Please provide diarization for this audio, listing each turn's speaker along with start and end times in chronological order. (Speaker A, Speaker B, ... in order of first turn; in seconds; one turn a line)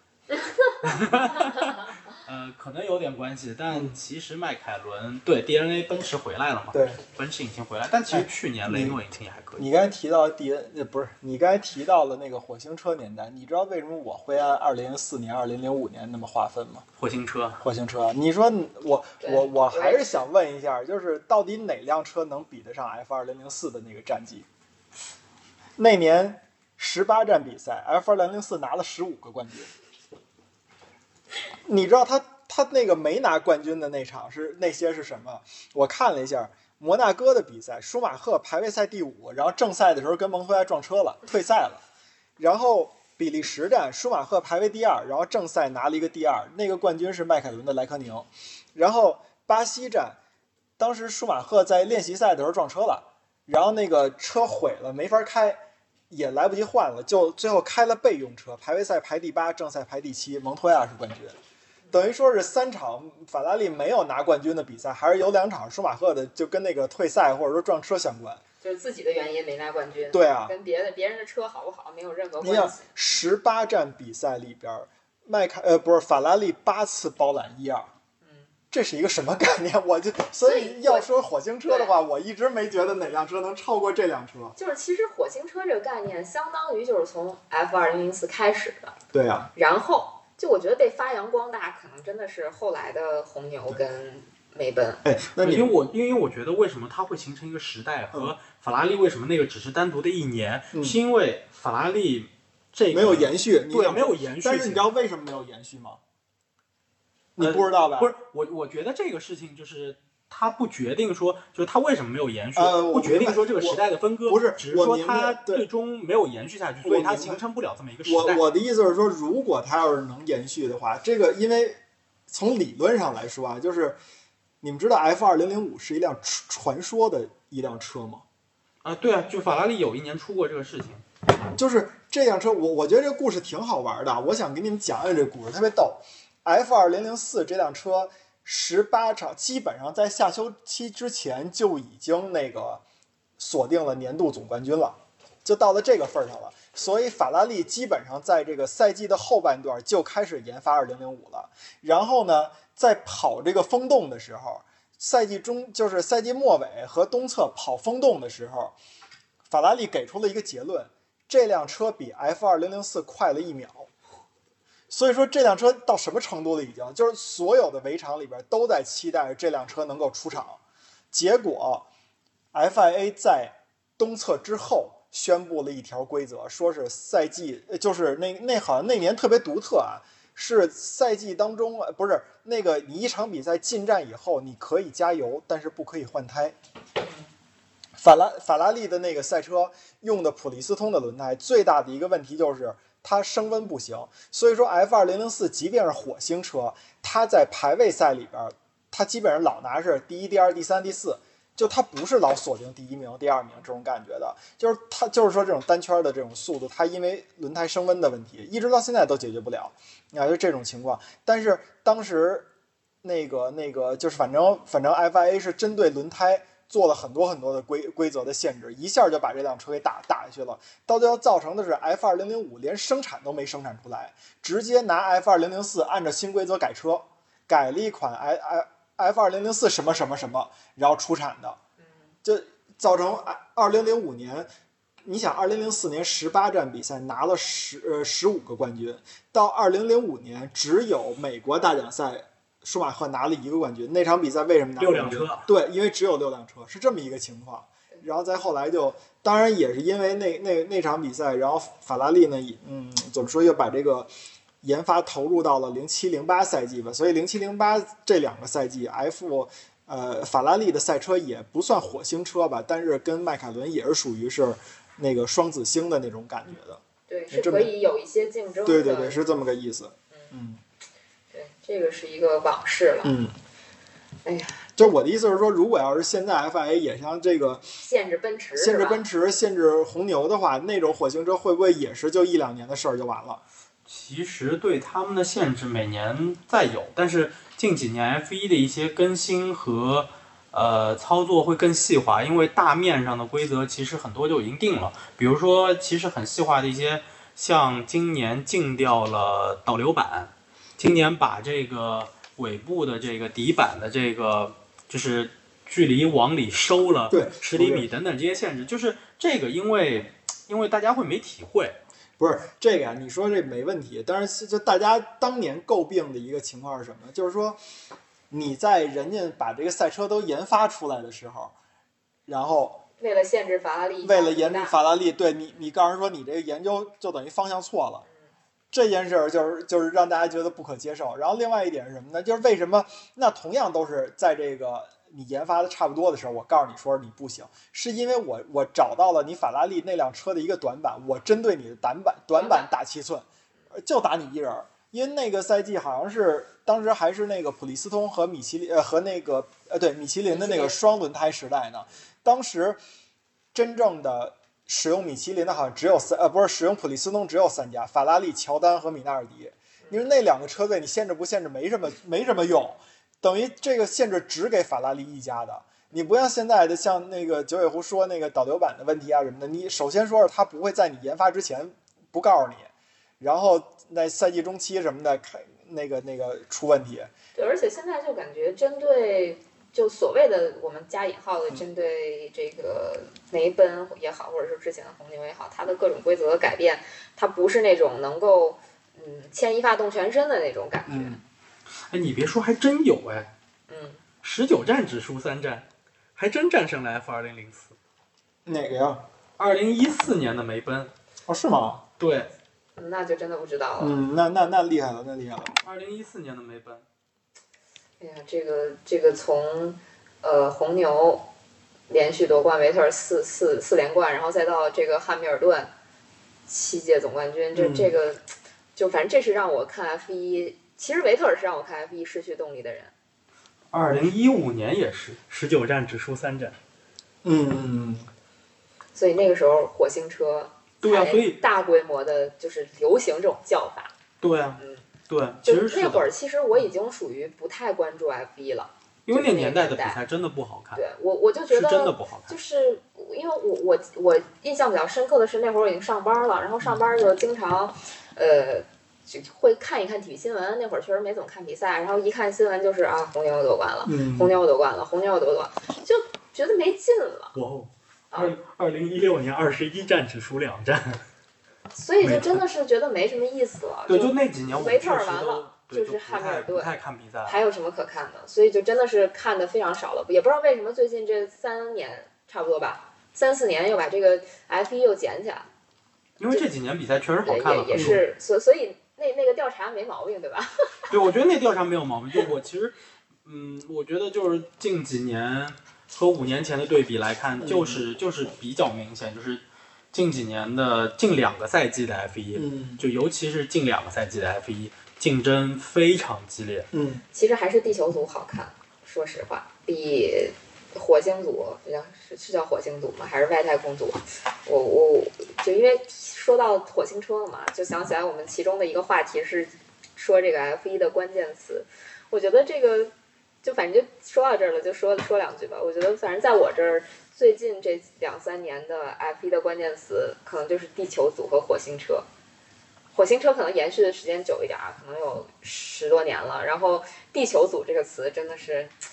Speaker A: 0.3-0.8
Speaker B: 0.8-9.7
Speaker C: 3.7-4.0
Speaker C: 6.7-7.0
Speaker C: 8.1-9.0
Speaker C: 9.6-16.9
Speaker B: 17.0-17.6
Speaker C: 17.6-24.5
Speaker A: 19.2-20.2
Speaker C: 25.8-29.7
Speaker C: 31.6-41.8
Speaker C: 42.4-50.2
Speaker C: 50.8-61.4
Speaker C: 61.9-68.4
Speaker A: 68.6-72.8
Speaker C: 70.1-70.5
Speaker C: 72.4-77.9
Speaker A: 78.2-78.5
Speaker C: 78.7-84.6
Speaker A: 80.4-81.1
Speaker A: 81.7-81.9
Speaker A: 84.6-89.0
Speaker C: 89.1-89.5
Speaker A: 89.5-95.0
Speaker C: 95.0-95.7
Speaker B: 95.4-104.9
Speaker C: 102.9-106.0
Speaker C: 107.4-108.1
Speaker B: 107.4-118.4
Speaker C: 112.6-115.7
Speaker C: 116.8-117.4
Speaker C: 118.1-124.0
Speaker C: 124.6-128.2
Speaker B: 128.8-131.0
Speaker C: 131.5-142.8
Speaker C: 143.4-158.8
Speaker C: 159.5-163.9
Speaker C: 164.9-170.6
Speaker C: 171.1-171.9
Speaker C: 172.5-186.6
Speaker A: 187.0-187.3
Speaker C: 188.0-212.5
Speaker C: 213.0-231.6
Speaker C: 232.2-234.5
Speaker C: 235.1-254.1
Speaker B: 244.8-245.5
Speaker C: 254.6-267.7
Speaker A: 267.1-269.2
Speaker C: 268.7-270.6
Speaker A: 271.3-273.1
Speaker C: 273.0-273.4
Speaker A: 274.2-274.7
Speaker C: 274.8-277.7
Speaker A: 277.8-279.0
Speaker C: 278.6-283.4
Speaker B: 283.9-311.8
Speaker C: 307.1-307.9
Speaker C: 312.2-317.6
Speaker C: 318.3-321.5
Speaker C: 322.3-322.8
Speaker A: 323.0-324.8
Speaker C: 324.0-328.1
Speaker C: 328.7-352.8
Speaker A: 342.3-342.7
Speaker A: 350.3-350.8
Speaker C: 353.5-377.1
Speaker A: 377.4-391.2
Speaker C: 390.9-391.2
Speaker B: 391.9-393.3
Speaker A: 393.7-394.0
Speaker B: 394.2-397.8
Speaker C: 398.5-399.1
Speaker B: 399.4-400.9
Speaker C: 401.3-401.8
Speaker B: 402.0-402.3
Speaker A: 402.8-404.0
Speaker C: 403.8-405.5
Speaker B: 405.6-406.8
Speaker A: 408.0-411.3
Speaker A: 411.9-415.7
Speaker A: 416.5-418.2
Speaker C: 417.5-417.9
Speaker A: 418.8-422.9
Speaker B: 423.7-426.6
Speaker C: 427.2-428.1
Speaker A: 428.9-433.9
Speaker B: 430.8-431.4
Speaker B: 434.2-436.1
Speaker A: 434.6-434.9
Speaker A: 435.4-440.0
Speaker B: 439.1-440.8
Speaker A: 440.8-457.4
Speaker B: 441.5-442.3
Speaker C: 453.9-454.3
Speaker B: 457.4-461.0
Speaker A: 458.1-458.4
Speaker A: 461.7-466.7
Speaker B: 462.0-462.4
Speaker B: 463.9-467.4
Speaker A: 467.3-475.5
Speaker B: 476.2-478.0
Speaker A: 477.2-480.9
Speaker C: 477.8-478.0
Speaker B: 480.9-489.4
Speaker C: 487.4-487.8
Speaker B: 489.9-496.7
Speaker C: 492.4-492.8
Speaker C: 496.7-497.0
Speaker A: 497.1-512.9
Speaker A: 513.4-522.1
Speaker A: 522.9-528.7